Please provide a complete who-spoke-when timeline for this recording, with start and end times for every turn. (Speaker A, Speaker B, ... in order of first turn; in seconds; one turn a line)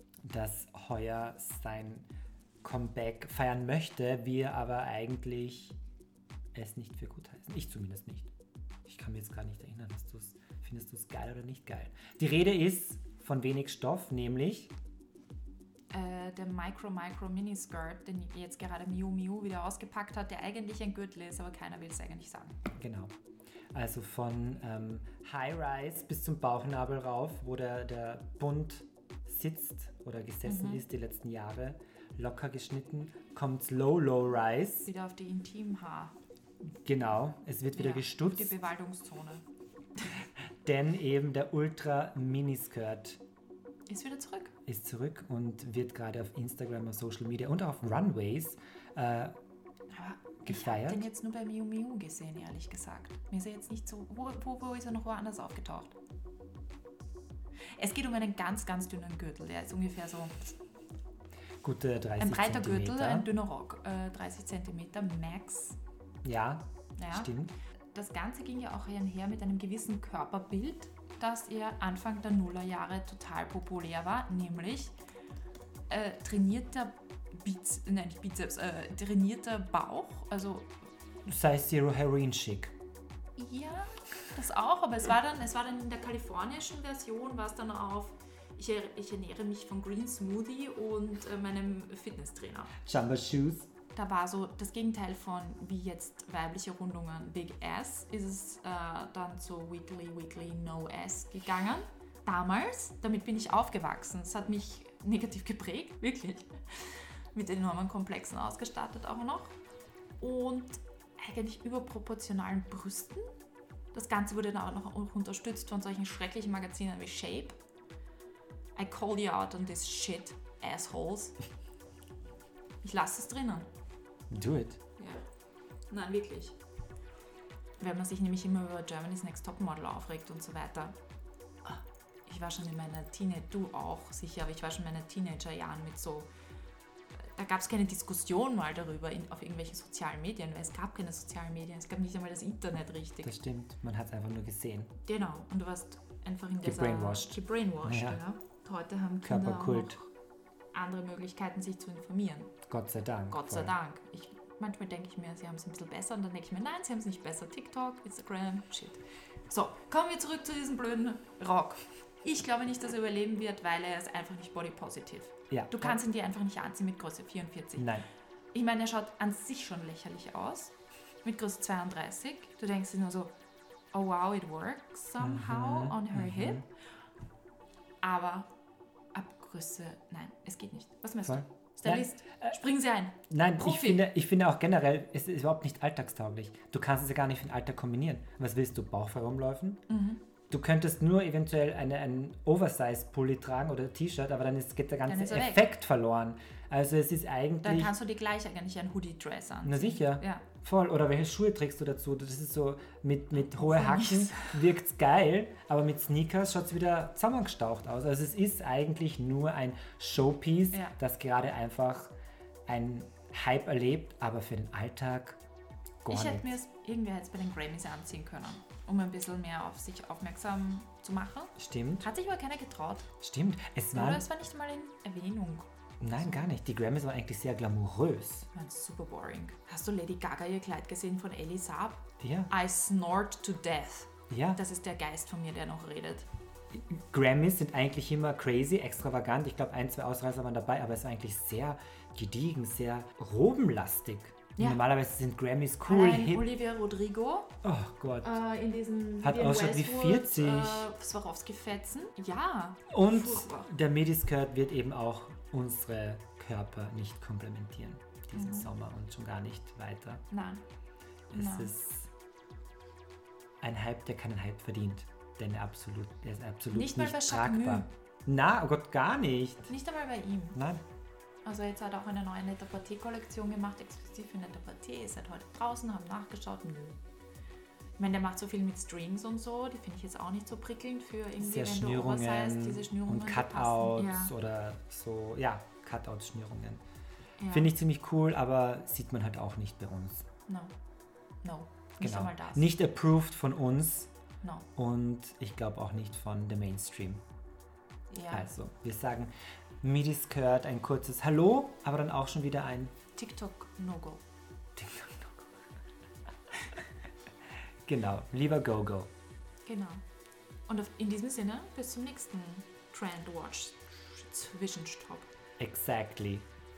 Speaker A: 0.2-2.1
Speaker A: 2.6-5.8
Speaker A: 6.5-8.3
Speaker A: 8.9-14.7
Speaker B: 15.9-22.6
Speaker A: 22.8-23.1
Speaker A: 23.7-34.9
Speaker B: 30.4-30.8
Speaker B: 34.9-36.1
Speaker A: 36.9-38.5
Speaker B: 37.7-39.4
Speaker A: 40.6-43.2
Speaker B: 43.9-44.5
Speaker A: 44.7-49.3
Speaker B: 49.9-56.0
Speaker A: 50.4-51.1
Speaker B: 57.8-60.6
Speaker A: 61.6-63.3
Speaker B: 62.2-65.8
Speaker A: 66.2-67.5
Speaker B: 67.0-67.3
Speaker B: 67.9-75.0
Speaker B: 75.9-80.7
Speaker A: 81.2-82.7
Speaker B: 83.4-92.7
Speaker A: 92.8-93.7
Speaker B: 93.9-109.6
Speaker B: 110.2-113.3
Speaker B: 113.9-117.6
Speaker B: 118.8-121.4
Speaker B: 122.8-123.7
Speaker A: 124.3-124.8
Speaker B: 125.0-125.2
Speaker B: 125.9-126.6
Speaker B: 127.8-131.0
Speaker B: 131.7-136.3
Speaker B: 137.2-143.4
Speaker A: 143.2-145.0
Speaker B: 145.1-150.1
Speaker A: 146.6-148.2
Speaker A: 149.2-150.0
Speaker B: 150.7-152.5
Speaker A: 152.7-153.8
Speaker B: 153.3-168.0
Speaker A: 165.5-166.0
Speaker A: 167.8-168.1
Speaker B: 168.5-173.3
Speaker B: 173.9-176.7
Speaker A: 175.2-176.6
Speaker B: 178.0-178.5
Speaker B: 179.1-184.0
Speaker A: 181.2-182.6
Speaker A: 183.3-189.8
Speaker B: 189.9-190.2
Speaker A: 190.5-197.9
Speaker B: 195.1-195.7
Speaker B: 197.6-200.4
Speaker A: 199.6-212.1
Speaker B: 203.3-204.7
Speaker A: 212.7-215.4
Speaker A: 216.0-216.5
Speaker B: 216.1-223.1
Speaker A: 221.6-222.1
Speaker A: 223.2-224.3
Speaker B: 223.9-226.3
Speaker A: 226.0-228.5
Speaker B: 228.5-236.3
Speaker A: 232.2-232.5
Speaker A: 234.3-234.6
Speaker A: 236.7-246.5
Speaker B: 244.6-244.8
Speaker B: 245.8-247.6
Speaker A: 247.6-248.4
Speaker B: 248.2-253.7
Speaker A: 249.2-250.9
Speaker A: 252.9-260.2
Speaker B: 258.4-258.7
Speaker B: 260.3-260.6
Speaker B: 261.3-261.7
Speaker A: 261.3-262.1
Speaker A: 263.6-269.7
Speaker B: 266.7-267.9
Speaker B: 269.7-270.6
Speaker A: 270.6-270.8
Speaker B: 271.4-277.0
Speaker B: 278.0-284.3
Speaker A: 281.4-286.8
Speaker B: 287.4-287.7
Speaker A: 287.5-290.3
Speaker B: 290.5-290.7
Speaker B: 291.4-292.7
Speaker A: 292.0-294.1
Speaker B: 294.4-294.7
Speaker A: 294.8-297.2
Speaker B: 298.1-298.5
Speaker A: 298.3-299.3
Speaker A: 299.8-302.9
Speaker B: 303.1-304.2
Speaker A: 304.8-305.6
Speaker A: 307.9-309.1
Speaker B: 309.7-310.0
Speaker B: 310.7-315.3
Speaker A: 315.6-316.5